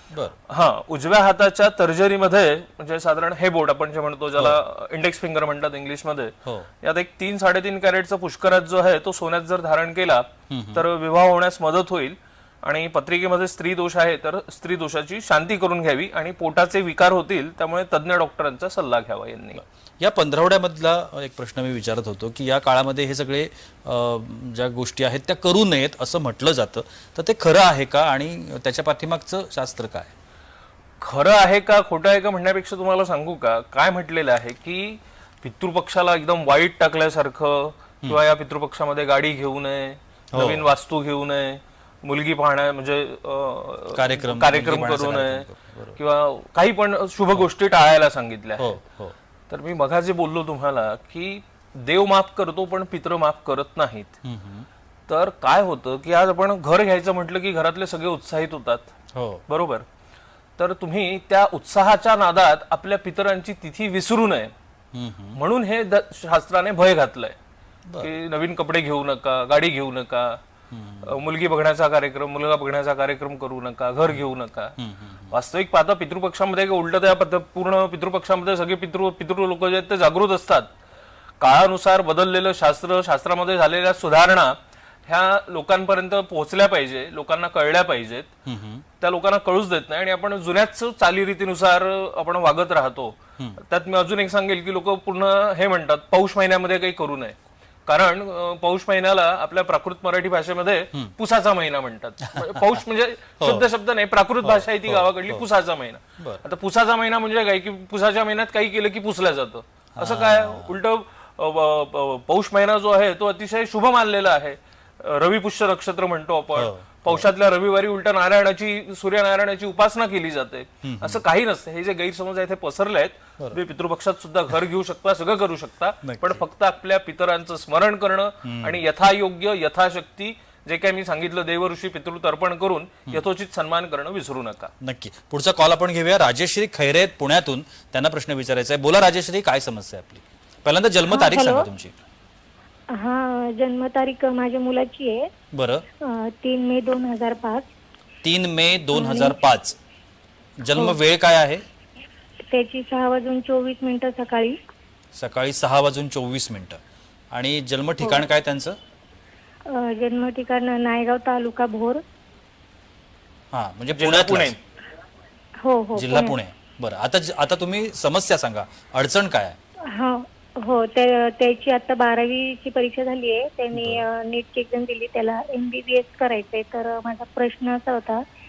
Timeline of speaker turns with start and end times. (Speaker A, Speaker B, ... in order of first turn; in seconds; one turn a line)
Speaker A: 0.1-0.4
Speaker B: 0.5-19.6
Speaker A: 4.3-4.6
Speaker A: 6.4-6.7
Speaker A: 10.5-10.8
Speaker A: 19.6-30.1
Speaker B: 31.0-48.8
Speaker A: 40.3-40.6
Speaker A: 43.9-46.0
Speaker A: 48.6-49.1
Speaker B: 49.5-54.1
Speaker A: 54.2-54.7
Speaker B: 55.1-58.9
Speaker A: 59.1-59.4
Speaker B: 59.5-59.8
Speaker B: 60.6-64.5
Speaker A: 64.9-65.4
Speaker B: 65.3-67.3
Speaker B: 68.0-70.4
Speaker A: 70.7-71.1
Speaker B: 71.0-74.7
Speaker A: 74.8-75.3
Speaker B: 75.3-80.7
Speaker B: 81.4-84.5
Speaker B: 85.1-88.3
Speaker A: 88.5-88.8
Speaker B: 89.0-134.7
Speaker A: 102.4-102.8
Speaker A: 103.4-103.7
Speaker A: 104.4-105.4
Speaker A: 106.2-106.4
Speaker A: 110.0-110.8
Speaker A: 116.5-117.3
Speaker A: 120.8-121.2
Speaker A: 126.0-126.5
Speaker A: 128.4-128.8
Speaker A: 134.8-141.9
Speaker C: 141.1-141.7
Speaker C: 142.9-145.3
Speaker A: 145.5-145.8
Speaker C: 146.0-147.7
Speaker A: 148.2-149.8
Speaker C: 148.9-149.4
Speaker A: 150.6-151.6
Speaker C: 152.5-154.6
Speaker A: 155.1-156.8
Speaker A: 157.3-158.8
Speaker C: 159.7-162.0
Speaker A: 163.5-164.6
Speaker B: 164.0-164.6
Speaker C: 165.6-166.3
Speaker A: 165.9-169.6
Speaker C: 169.9-178.2
Speaker A: 173.7-174.0